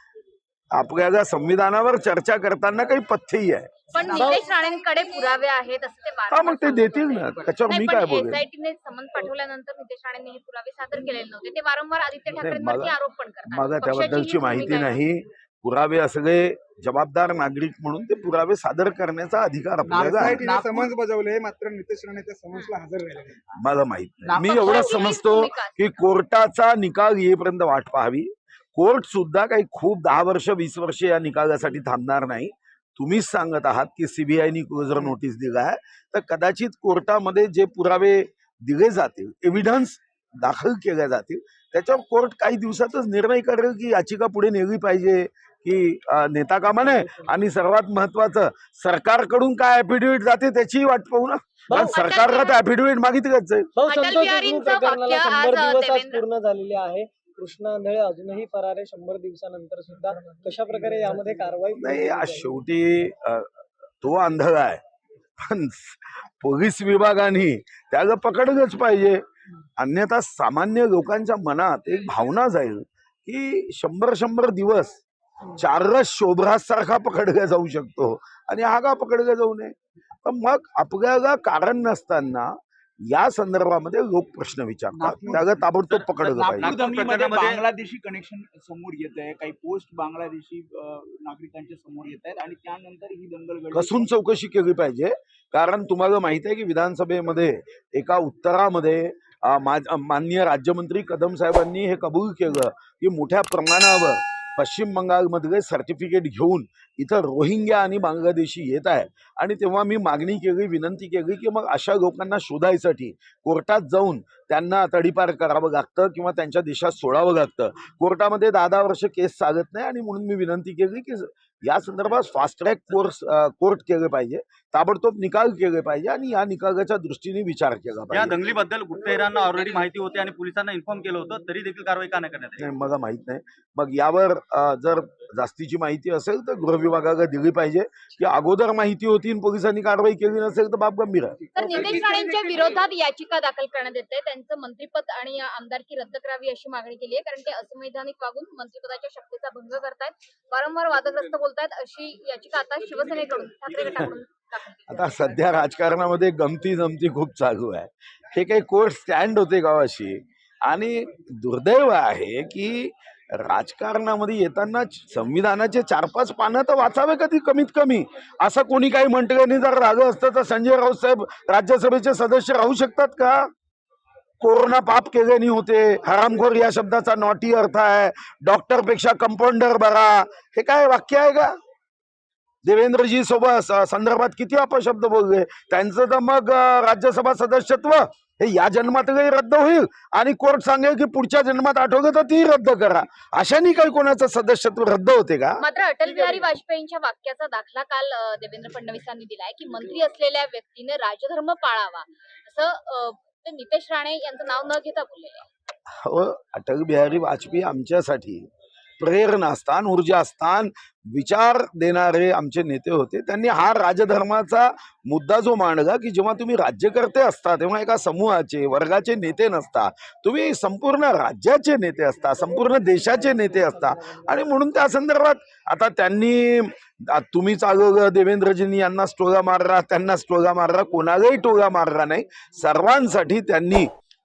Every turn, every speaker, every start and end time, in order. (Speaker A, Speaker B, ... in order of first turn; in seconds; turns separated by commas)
Speaker A: 0.7-3.8, Speaker B: 3.9-15.0, Speaker C: 3.9-4.4, Speaker A: 6.3-8.4, Speaker A: 12.3-12.9, Speaker A: 13.5-20.4, Speaker C: 19.8-20.9, Speaker D: 20.1-23.4, Speaker A: 23.6-53.7, Speaker C: 24.2-24.9, Speaker B: 24.4-26.1, Speaker E: 46.9-47.2, Speaker E: 51.7-52.0, Speaker B: 51.8-52.6, Speaker E: 53.8-62.5, Speaker B: 53.9-56.2, Speaker A: 61.7-63.5, Speaker A: 64.0-64.8, Speaker A: 65.4-69.2, Speaker A: 69.8-75.0, Speaker A: 75.5-82.5, Speaker A: 83.1-86.8, Speaker C: 84.9-85.6, Speaker F: 85.9-87.6, Speaker C: 86.3-94.1, Speaker A: 93.7-128.4, Speaker F: 128.1-132.7, Speaker A: 132.6-141.4, Speaker B: 141.5-155.3, Speaker C: 141.6-141.8, Speaker A: 154.9-173.4, Speaker A: 174.4-181.5, Speaker A: 182.6-195.6, Speaker B: 195.6-205.5, Speaker A: 205.9-208.5, Speaker A: 209.0-233.9, Speaker E: 222.6-224.2